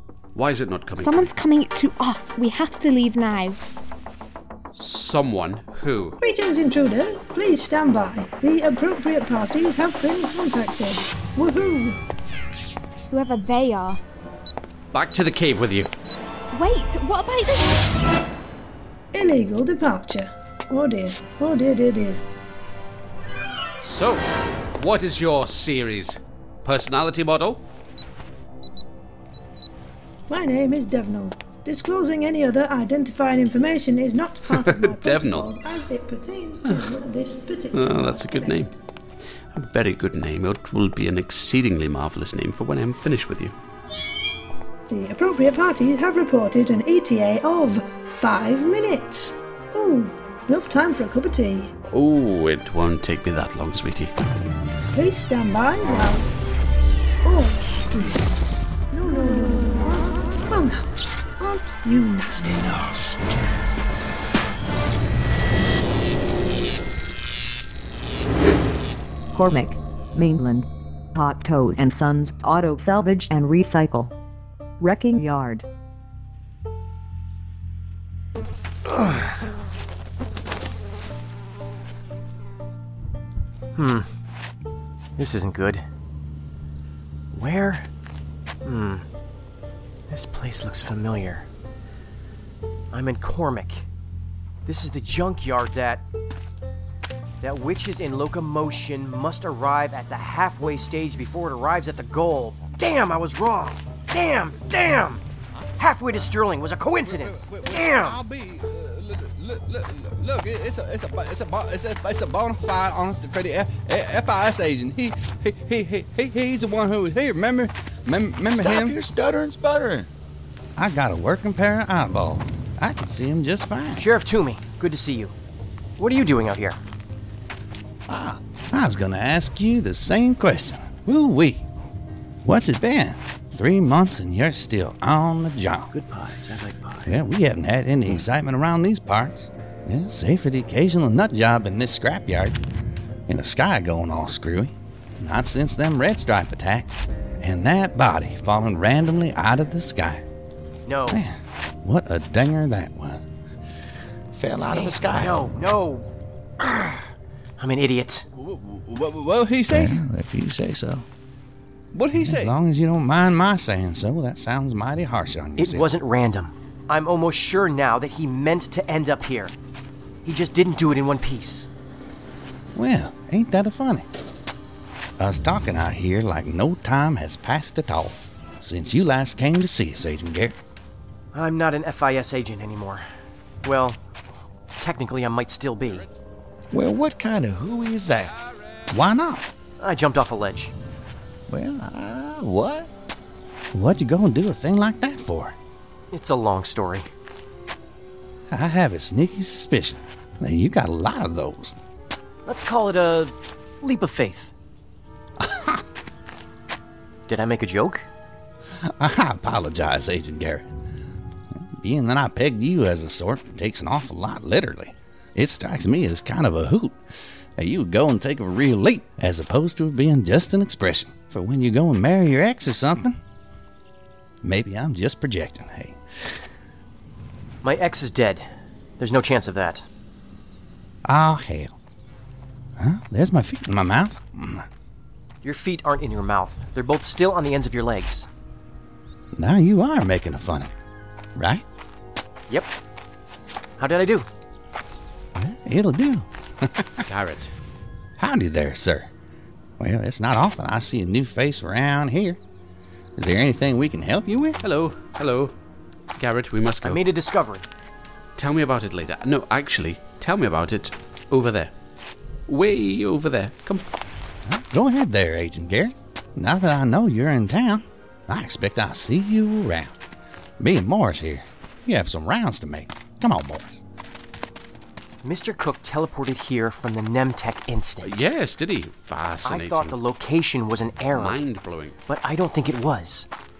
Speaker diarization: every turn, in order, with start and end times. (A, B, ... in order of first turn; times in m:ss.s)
0:00.3-0:01.3 A
0:01.0-0:03.6 B
0:04.7-0:06.2 A
0:06.2-0:12.0 C
0:13.1-0:14.0 B
0:14.9-0:15.9 A
0:16.5-0:17.8 B
0:19.1-0:22.2 C
0:23.8-0:27.6 A
0:30.3-0:38.7 C
0:34.5-0:35.5 A
0:36.6-0:36.9 A
0:37.7-0:38.7 A
0:39.5-0:43.5 A
0:44.9-0:51.7 C
0:51.9-0:54.1 A
0:54.9-0:56.3 C
0:57.2-0:58.3 C
0:58.9-1:03.1 C
1:09.3-1:14.1 D
1:14.8-1:15.6 D
1:18.8-1:19.4 E
1:23.7-1:24.1 E
1:25.2-1:25.8 E
1:27.3-1:27.9 E
1:28.6-1:29.0 E
1:30.1-1:31.4 E
1:32.9-1:33.8 E
1:34.6-1:36.0 E
1:37.4-1:45.2 E
1:45.8-1:48.2 E
1:47.0-2:00.0 F
1:58.5-1:58.9 G
2:00.8-2:04.0 G
2:03.9-2:05.3 E
2:06.0-2:06.8 E
2:08.1-2:11.6 G
2:12.4-2:15.9 G
2:16.0-2:17.0 E
2:17.0-2:22.6 G
2:23.3-2:30.2 G
2:30.8-2:31.2 E
2:31.1-2:33.2 G
2:34.3-2:35.4 G
2:34.7-2:36.1 E
2:36.6-2:37.0 E
2:37.6-2:38.2 E
2:38.4-2:40.0 F
2:39.7-2:41.0 G
2:41.9-2:42.5 F
2:42.2-2:45.9 G
2:45.6-2:49.5 E
2:50.2-2:51.7 E
2:52.7-2:54.1 G
2:55.2-3:00.6 G
3:01.3-3:03.0 E
3:03.6-3:04.0 E
3:04.8-3:06.1 E
3:06.7-3:08.3 G
3:08.9-3:09.4 G
3:09.8-3:10.7 E
3:11.5-3:12.9 G
3:13.7-3:15.5 G
3:16.1-3:17.1 E
3:18.5-3:21.7 G
3:22.4-3:24.5 E
3:25.4-3:25.8 G
3:27.3-3:28.1 E
3:29.0-3:30.7 G
3:31.8-3:37.0 G
3:37.6-3:43.2 G
3:44.4-3:46.0 G
3:47.6-3:48.5 E
3:49.0-3:49.8 E
3:51.0-3:51.7 G
3:52.8-3:54.6 G
3:55.4-3:58.3 E
3:59.3-4:00.7 G
4:01.4-4:01.6 G
4:03.8-4:04.3 E
4:05.4-4:06.8 G
4:07.1-4:07.5 A
4:08.2-4:09.1 G
4:09.8-4:12.4 G
4:13.2-4:14.6 G
4:14.6-4:15.5 A
4:16.2-4:17.0 A
4:16.8-4:17.6 E
4:18.4-4:21.7 A
4:22.5-4:23.8 A
4:24.5-4:29.9 G
4:30.6-4:33.8 G
4:35.2-4:38.3 E
4:38.0-4:40.0 A
4:39.4-4:41.4 E
4:41.1-4:42.0 A
4:42.1-4:43.3 E